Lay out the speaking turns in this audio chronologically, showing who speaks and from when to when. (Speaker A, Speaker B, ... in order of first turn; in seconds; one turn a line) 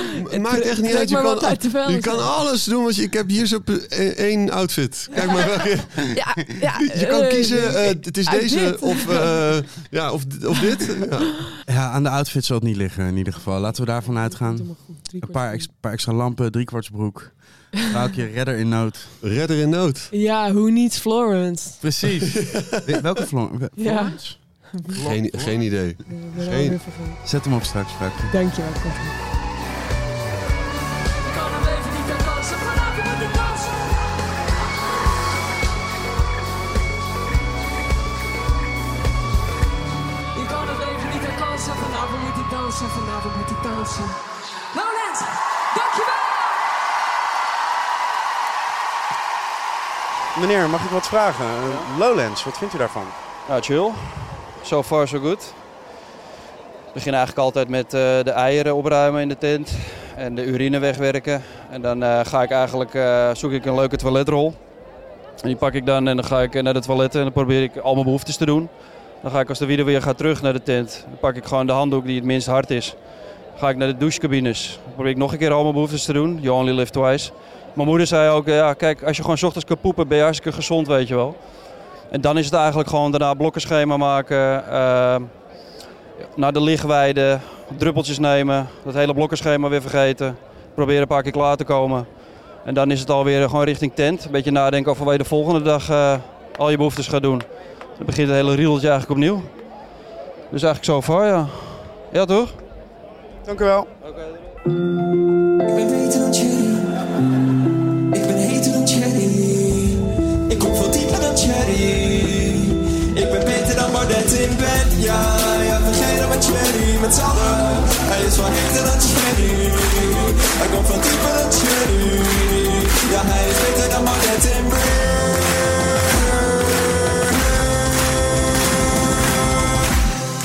Speaker A: 0.3-2.3
Speaker B: 0.3-11.5
Speaker A: 5.2-5.4
Speaker A: 6.1-9.8
Speaker C: 11.7-19.1
Speaker A: 14.0-15.7
Speaker B: 19.2-20.1
Speaker A: 20.1-21.8
Speaker C: 21.8-25.8
Speaker B: 22.4-22.8
Speaker A: 23.8-25.0
Speaker B: 25.0-26.8
Speaker A: 26.0-27.2
Speaker C: 27.2-28.3
Speaker A: 28.3-29.1
Speaker D: 31.2-33.8
Speaker D: 40.3-44.2
Speaker D: 44.7-46.6
Speaker C: 50.3-53.1
Speaker E: 53.5-55.6
Speaker E: 56.9-64.6
Speaker E: 65.4-81.5
Speaker E: 82.1-85.5
Speaker E: 86.3-99.6
Speaker E: 100.5-102.6
Speaker C: 103.4-103.9
Speaker F: 105.6-107.0
Speaker F: 108.1-127.3